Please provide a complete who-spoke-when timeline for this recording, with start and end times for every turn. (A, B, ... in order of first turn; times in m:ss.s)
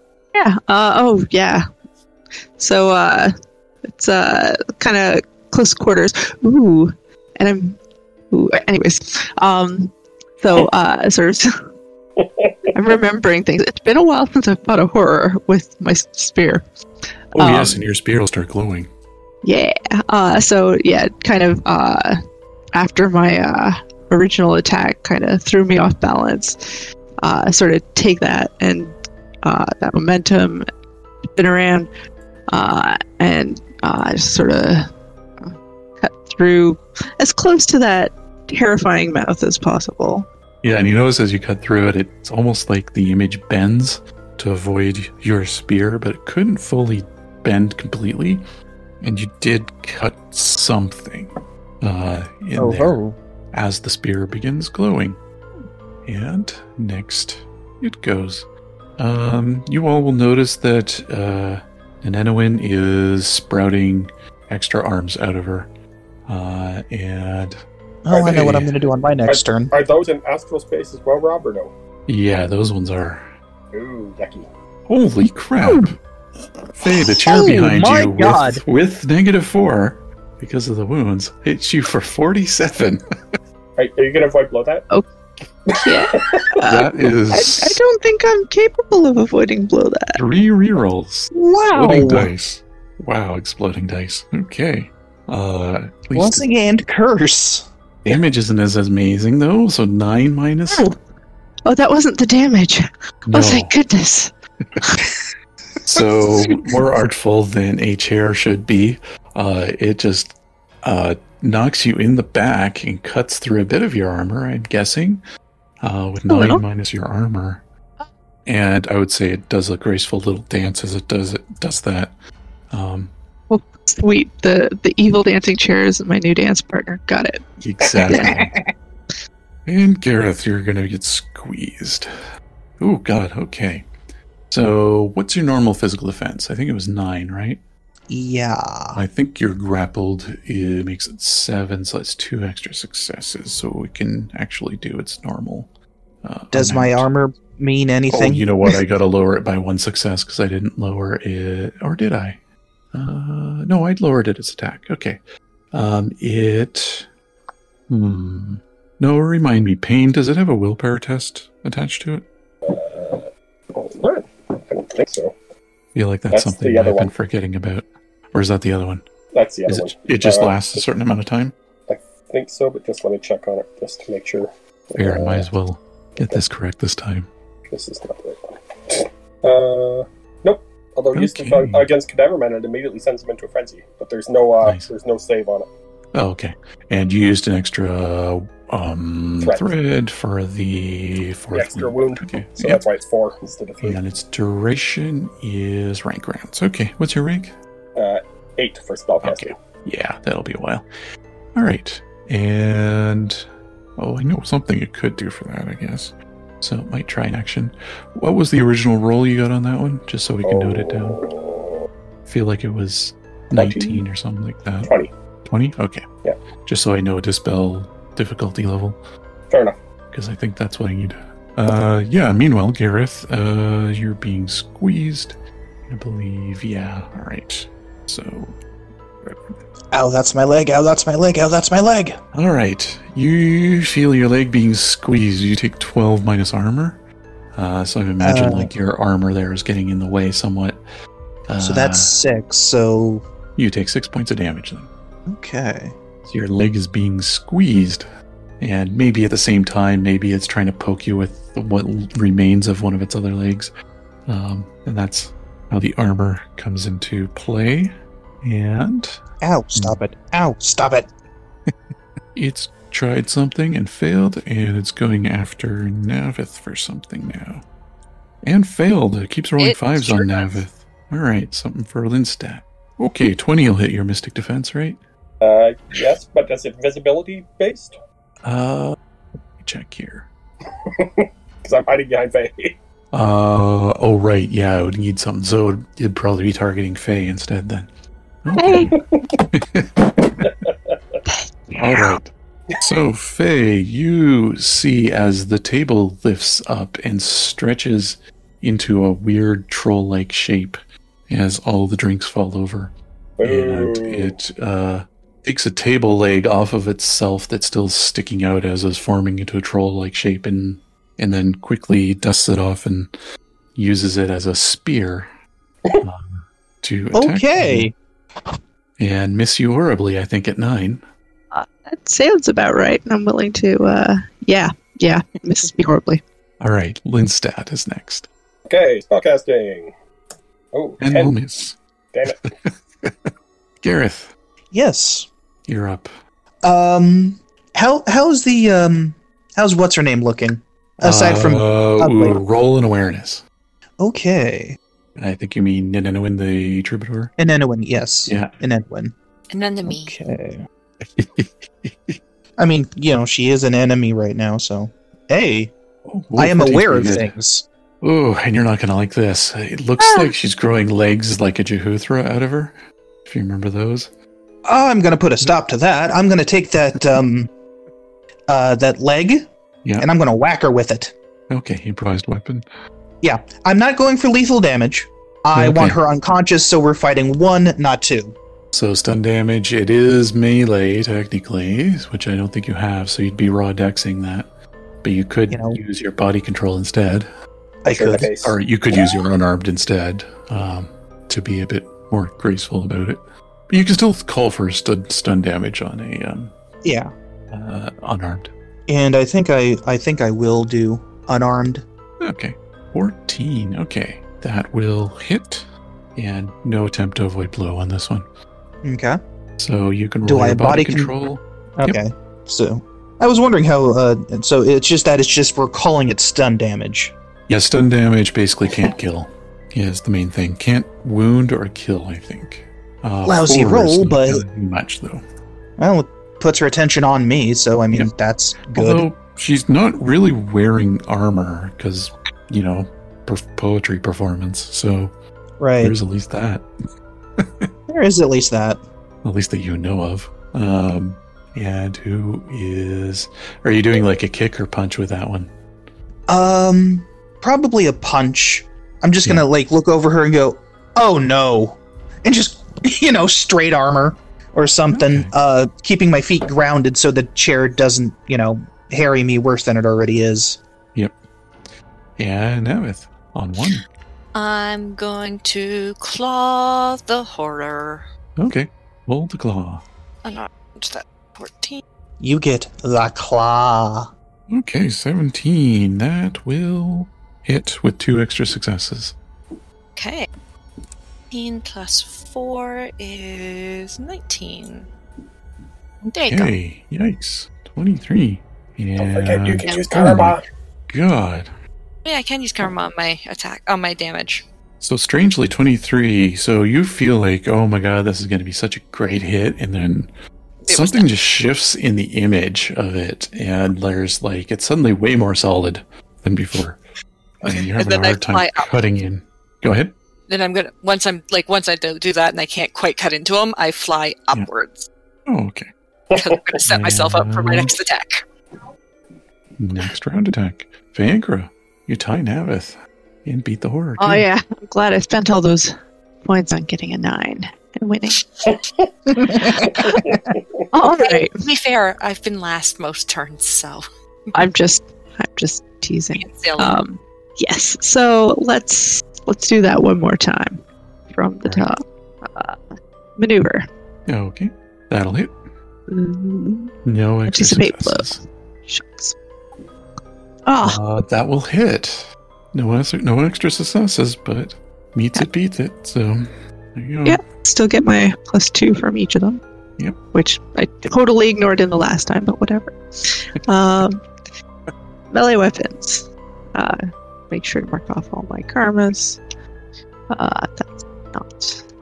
0:00.3-0:01.6 A
0:02.6-0:03.3 A
0:03.9-0:07.8 A
0:08.3-0:11.5 A
0:12.2-0:12.7 B
0:12.7-0:16.6 A
0:17.3-0:18.9 C
0:17.4-0:17.8 A
0:19.4-0:22.2 A
0:22.7-0:30.6 A
0:31.4-0:31.9 A
0:32.5-0:34.9 A
0:35.4-0:40.2 A
0:40.6-0:48.4 C
0:49.0-0:53.0 C
0:52.6-0:53.2 D
0:53.5-0:55.2 C
0:56.0-0:58.5 C
0:59.0-1:05.7 C
1:06.3-1:07.6 C
1:08.0-1:09.7 D
1:08.1-1:08.8 C
1:08.2-1:08.5 B
1:09.3-1:11.7 B
1:12.1-1:13.3 C
1:13.7-1:14.5 B
1:14.9-1:16.0 C
1:16.8-1:23.0 C
1:16.9-1:18.6 D
1:23.8-1:24.8 B
1:25.7-1:26.5 B
1:25.8-1:30.2 A
1:26.6-1:27.8 C
1:30.1-1:36.5 C
1:31.3-1:32.3 D
1:36.1-1:37.6 D
1:38.0-1:40.8 C
1:40.7-1:40.9 A
1:41.6-1:45.0 A
1:43.2-1:43.7 C
1:45.8-1:55.2 C
1:46.2-1:46.6 A
1:55.8-1:57.6 C
1:56.3-1:56.6 A
1:58.4-2:02.1 C
2:02.7-2:03.1 C
2:03.5-2:07.4 A
2:07.6-2:08.5 C
2:08.1-2:08.4 A
2:08.2-2:08.6 D
2:09.6-2:12.1 C
2:12.8-2:13.9 C
2:14.5-2:17.6 C
2:18.1-2:19.0 D
2:18.9-2:25.7 C
2:26.2-2:27.1 C
2:26.5-2:28.8 D
2:28.1-2:32.4 C
2:32.9-2:35.2 C
2:35.7-2:37.1 C
2:37.9-2:42.2 C
2:42.6-2:45.3 B
2:45.9-2:49.0 C
2:46.3-2:47.1 B
2:49.3-2:50.8 B
2:49.6-2:51.5 C
2:51.9-2:55.5 B
2:55.0-2:57.3 C
2:57.7-3:05.7 B
3:01.1-3:01.9 C
3:04.6-3:04.9 C
3:06.1-3:12.8 C
3:09.4-3:09.7 B
3:11.5-3:14.0 B
3:13.8-3:17.5 C
3:18.0-3:19.6 B
3:19.2-3:20.9 C
3:21.5-3:23.4 C
3:24.0-3:31.3 C
3:30.4-3:31.8 B
3:32.2-3:34.9 C
3:33.5-3:34.0 B
3:34.8-3:35.1 B
3:35.5-3:36.0 C
3:36.6-3:39.0 C
3:39.5-3:39.8 B
3:40.1-3:45.4 C
3:45.9-3:48.6 C
3:49.9-3:52.2 D
3:52.3-3:57.0 C
3:57.5-4:00.8 C
3:58.2-3:58.7 D
4:01.5-4:02.2 C
4:01.6-4:03.2 D
4:03.6-4:04.9 C
4:05.3-4:06.0 D
4:06.2-4:08.0 C
4:08.6-4:13.7 C
4:14.3-4:19.2 C
4:19.4-4:21.1 D
4:22.3-4:27.6 C
4:28.4-4:35.0 C
4:29.6-4:30.6 E
4:35.4-4:38.0 B
4:38.4-4:39.0 C
4:39.6-4:40.3 C
4:40.9-4:42.7 B
4:43.1-4:47.9 C
4:48.4-4:48.9 C
4:48.6-4:48.9 A
4:48.9-4:49.4 B
4:49.5-4:50.5 C
4:50.4-4:51.2 B
4:51.3-4:52.0 A
4:51.8-5:13.1 C
5:03.4-5:04.3 B
5:13.7-5:15.3 C
5:16.0-5:17.9 C
5:17.1-5:17.9 D
5:19.0-5:21.0 C
5:21.5-5:26.2 A
5:26.6-5:28.3 C
5:28.7-5:29.9 B
5:30.7-5:31.4 B
5:31.0-5:33.3 C
5:32.1-5:32.4 B
5:33.8-5:34.3 C
5:34.7-5:35.3 D
5:35.7-5:36.1 C
5:36.6-5:42.4 D
5:41.0-5:43.4 C
5:44.0-5:44.8 D
5:45.2-5:47.3 C
5:47.4-5:49.1 D
5:48.2-5:48.5 C
5:49.5-5:50.2 E
5:49.8-5:50.6 D
5:51.0-5:52.2 C
5:52.6-5:55.7 D
5:56.0-5:57.3 C
5:56.4-5:57.6 D
5:58.0-6:04.1 C
6:00.0-6:00.3 A
6:04.6-6:07.5 D
6:08.5-6:09.5 D
6:10.0-6:11.1 D
6:11.5-6:12.6 C
6:13.2-6:18.3 D
6:15.5-6:16.0 C
6:18.7-6:24.5 C
6:25.0-6:27.3 C
6:25.5-6:25.8 D
6:27.8-6:28.3 D
6:27.9-6:29.1 B
6:28.4-6:36.5 C
6:36.8-6:37.1 D
6:37.5-6:38.5 C
6:38.9-6:41.8 D
6:42.2-6:48.2 C
6:48.8-6:49.2 D
6:49.6-6:52.0 C
6:50.2-6:51.1 D
6:51.8-6:57.1 D
6:57.5-7:05.2 C
7:03.2-7:04.4 D
7:05.8-7:09.1 D
7:08.7-7:15.1 C
7:15.6-7:16.0 D
7:15.8-7:16.6 C
7:17.4-7:17.7 C
7:17.9-7:18.8 D
7:19.2-7:25.5 C
7:26.3-7:40.6 D
7:34.9-7:35.3 C
7:42.2-7:43.8 C
7:44.3-7:48.0 E
7:48.4-7:49.8 C
7:50.2-7:51.8 E
7:52.2-7:54.1 D
7:54.5-7:59.1 C
8:00.0-8:00.3 E
8:01.3-8:04.9 E
8:06.1-8:06.5 E
8:06.2-8:11.5 C
8:09.0-8:10.4 B
8:09.6-8:09.9 E
8:12.0-8:14.4 E
8:14.8-8:20.1 C
8:20.6-8:21.1 E
8:20.7-8:26.8 C
8:27.4-8:29.9 C
8:27.4-8:28.7 E
8:30.3-8:34.9 E
8:35.3-8:35.7 C
8:36.1-8:36.4 B
8:36.1-8:38.2 E
8:36.6-8:37.7 C
8:39.6-8:44.2 C
8:44.0-8:48.3 A
8:49.6-8:50.7 B
8:50.7-8:51.4 A
8:51.0-8:54.4 E
8:54.3-9:02.6 A
8:56.2-8:56.8 E
9:03.2-9:03.7 A
9:04.1-9:05.3 C
9:05.9-9:06.7 A
9:06.8-9:08.2 C
9:07.3-9:09.1 A
9:10.4-9:10.8 A
9:10.6-9:17.2 C
9:17.0-9:19.4 A
9:20.1-9:24.0 A
9:25.1-9:29.2 A
9:30.1-9:31.6 A